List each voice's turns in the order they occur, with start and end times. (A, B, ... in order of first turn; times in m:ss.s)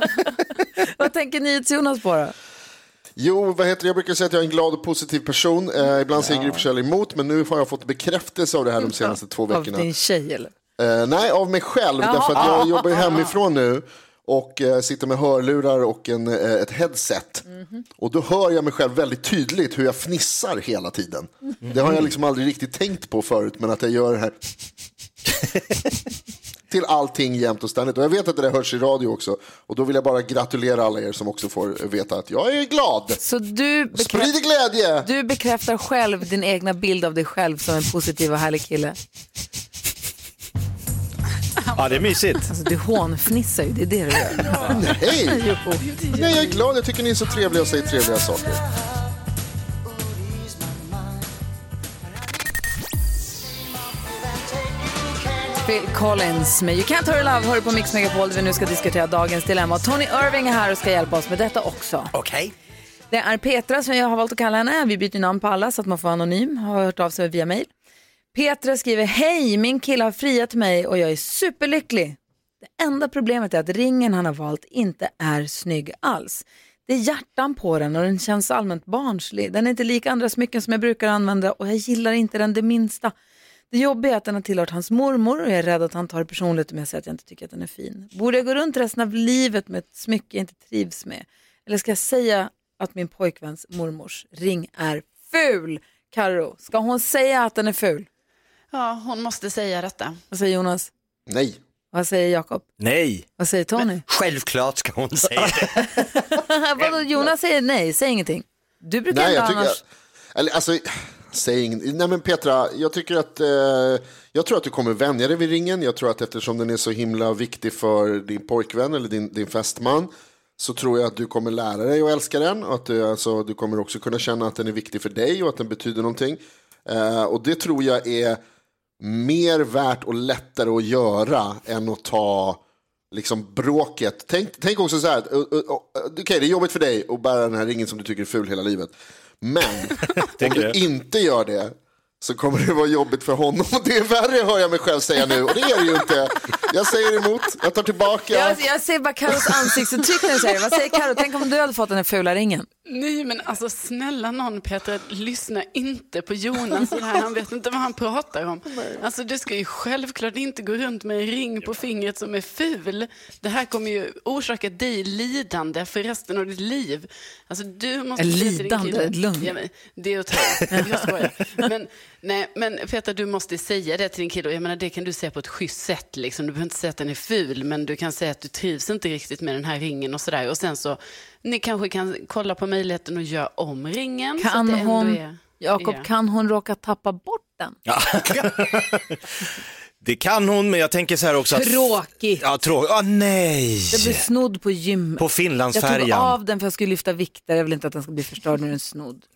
0:00.8-0:02.3 A
0:03.2-0:09.9 B
0:06.3-0:06.6 C
0:08.8-0:10.5 A
0:10.8-0:17.4 B
0:12.0-0:13.0 A
0:13.0-0:13.2 D
0:18.0-0:24.4 B
0:21.7-0:22.0 C
0:26.7-0:33.2 B
0:33.2-0:34.4 A
0:34.0-0:35.1 B
0:35.0-0:39.0 A
0:41.8-0:42.4 C
0:42.5-0:44.7 A
0:44.7-0:45.4 B
0:45.2-0:45.9 A
0:45.9-0:46.4 D
0:46.1-0:48.6 B
0:55.6-1:02.1 A
1:02.1-1:02.5 E
1:03.1-1:07.7 A
1:08.3-1:23.1 A
1:23.7-1:38.1 A
1:38.7-1:40.2 D
1:40.3-1:40.9 A
1:41.3-1:41.6 B
1:41.9-1:42.7 A
1:42.8-1:43.2 C
1:43.4-1:44.0 A
1:44.1-1:45.9 E
1:46.2-1:49.8 A
1:49.1-1:49.8 B
1:50.4-2:08.4 B
2:09.0-2:28.6 B
2:20.4-2:20.8 C
2:28.3-2:32.7 A
2:32.9-3:06.1 D
2:48.2-2:49.6 A
2:50.7-2:51.1 A
3:04.4-3:07.8 A
3:07.9-3:09.2 C
3:10.0-3:14.2 C
3:11.5-3:12.4 A
3:13.9-3:19.2 A
3:15.2-3:16.4 C